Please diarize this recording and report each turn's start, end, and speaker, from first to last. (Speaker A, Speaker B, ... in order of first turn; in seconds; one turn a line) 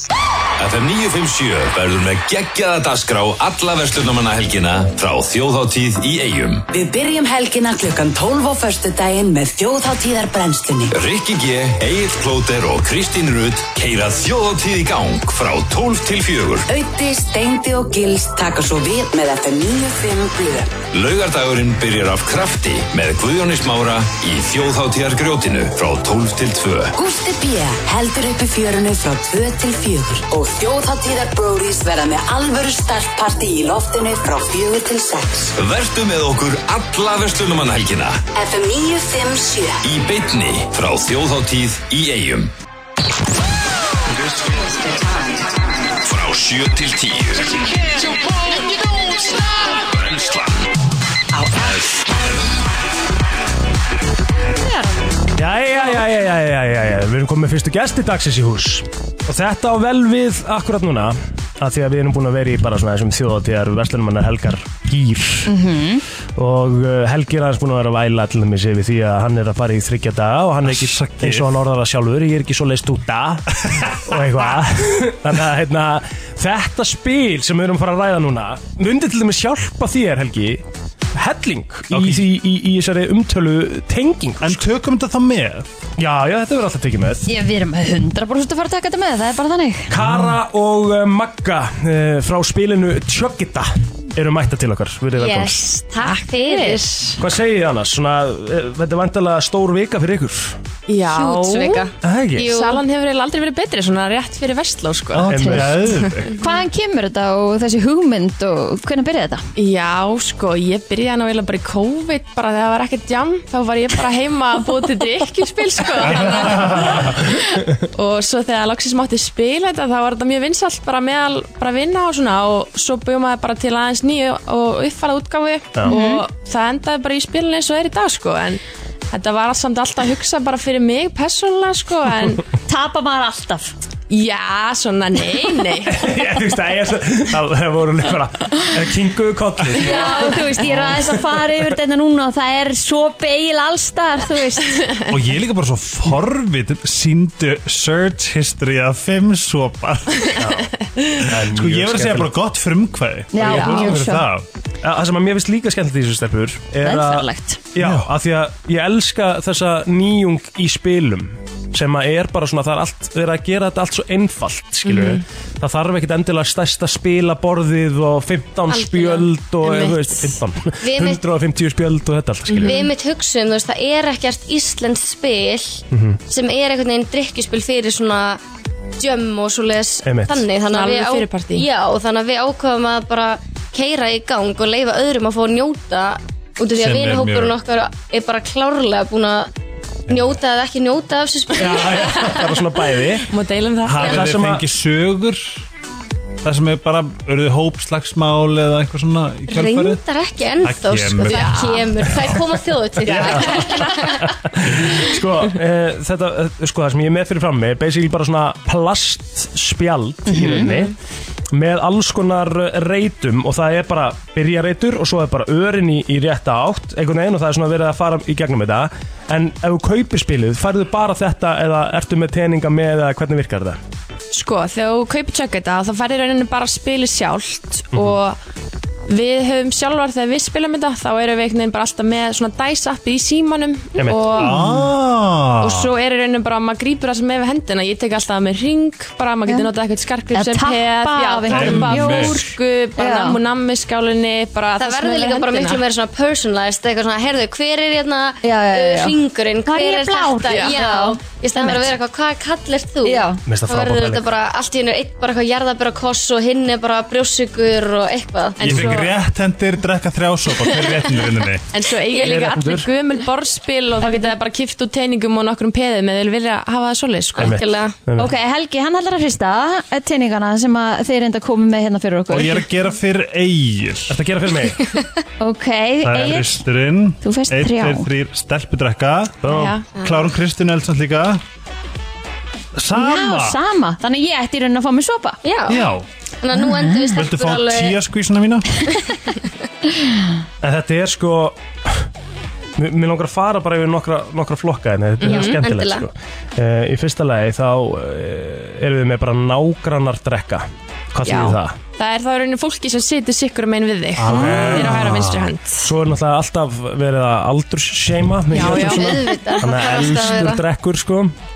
Speaker A: 0.6-6.6
Speaker B: 6.7-11.0
Speaker A: 10.9-16.6
Speaker B: 16.7-20.8
Speaker A: 20.9-26.9
Speaker B: 27.0-35.5
Speaker A: 35.6-38.2
Speaker B: 38.3-39.8
Speaker A: 39.8-42.5
Speaker A: 46.0-47.5
Speaker A: 49.9-50.6
Speaker C: 54.6-54.9
Speaker D: 55.4-65.6
Speaker C: 65.5-66.0
Speaker D: 66.4-84.7
Speaker E: 70.6-71.5
Speaker E: 81.9-82.3
Speaker E: 84.4-85.7
Speaker D: 86.0-87.3
Speaker C: 87.2-89.9
Speaker D: 89.9-95.6
Speaker E: 90.0-90.3
Speaker F: 95.2-97.0
Speaker G: 96.0-97.1
Speaker D: 97.2-100.6
Speaker G: 100.9-106.0
Speaker F: 101.1-102.8
Speaker D: 102.0-102.5
Speaker E: 105.1-106.3
Speaker D: 105.3-105.9
Speaker C: 106.4-109.4
Speaker G: 109.6-132.4
Speaker E: 116.1-116.8
Speaker C: 125.9-126.2
Speaker C: 132.7-133.7
Speaker G: 134.1-136.0
Speaker D: 135.9-141.4
Speaker C: 139.7-144.9
Speaker E: 145.1-150.5
Speaker D: 150.4-150.7
Speaker D: 151.2-152.3
Speaker E: 151.2-154.4
Speaker C: 153.3-154.2
Speaker D: 153.4-154.1
Speaker D: 154.8-172.9
Speaker C: 156.8-157.6
Speaker E: 157.8-158.1
Speaker G: 164.8-165.2
Speaker F: 168.7-169.3
Speaker F: 170.8-171.2
Speaker G: 172.5-172.9
Speaker F: 172.6-178.4
Speaker D: 175.9-176.2
Speaker F: 179.0-189.5
Speaker D: 180.1-180.4
Speaker G: 180.7-181.7
Speaker E: 186.7-187.6
Speaker F: 190.1-192.4
Speaker E: 190.1-190.4
Speaker D: 191.6-193.3
Speaker G: 193.3-194.2
Speaker E: 193.8-195.6
Speaker D: 194.0-194.6
Speaker E: 196.4-200.0
Speaker F: 199.5-204.2
Speaker E: 200.6-201.6
Speaker G: 201.2-202.0
Speaker G: 203.0-204.1
Speaker D: 203.1-210.9
Speaker C: 210.3-210.6
Speaker D: 211.5-223.8
Speaker G: 224.3-228.4
Speaker D: 227.9-228.2
Speaker G: 229.1-234.7
Speaker D: 234.0-234.5
Speaker E: 234.3-235.9
Speaker G: 235.6-245.8
Speaker C: 240.3-243.4
Speaker E: 241.5-242.4
Speaker F: 244.8-258.9
Speaker C: 248.4-251.9
Speaker G: 250.5-250.8
Speaker C: 253.0-253.4
Speaker D: 253.4-254.2
Speaker G: 258.6-259.1
Speaker E: 258.6-261.6
Speaker G: 261.7-267.6
Speaker D: 262.2-262.9
Speaker F: 267.4-268.0
Speaker D: 267.4-268.3
Speaker C: 268.2-272.6
Speaker E: 272.3-274.1
Speaker D: 274.1-274.8
Speaker C: 275.4-276.6
Speaker E: 276.0-281.4
Speaker C: 277.2-278.1
Speaker D: 279.4-279.8
Speaker G: 279.5-279.9
Speaker E: 282.7-283.6
Speaker C: 282.9-285.4
Speaker F: 285.4-285.9
Speaker E: 285.7-286.1
Speaker F: 286.4-288.0
Speaker E: 287.1-288.9
Speaker D: 290.6-292.1
Speaker D: 292.8-301.8
Speaker G: 295.2-295.6
Speaker F: 295.2-296.1
Speaker G: 301.2-305.9
Speaker E: 304.1-305.5
Speaker D: 305.8-311.3
Speaker G: 308.5-309.6
Speaker F: 308.7-310.6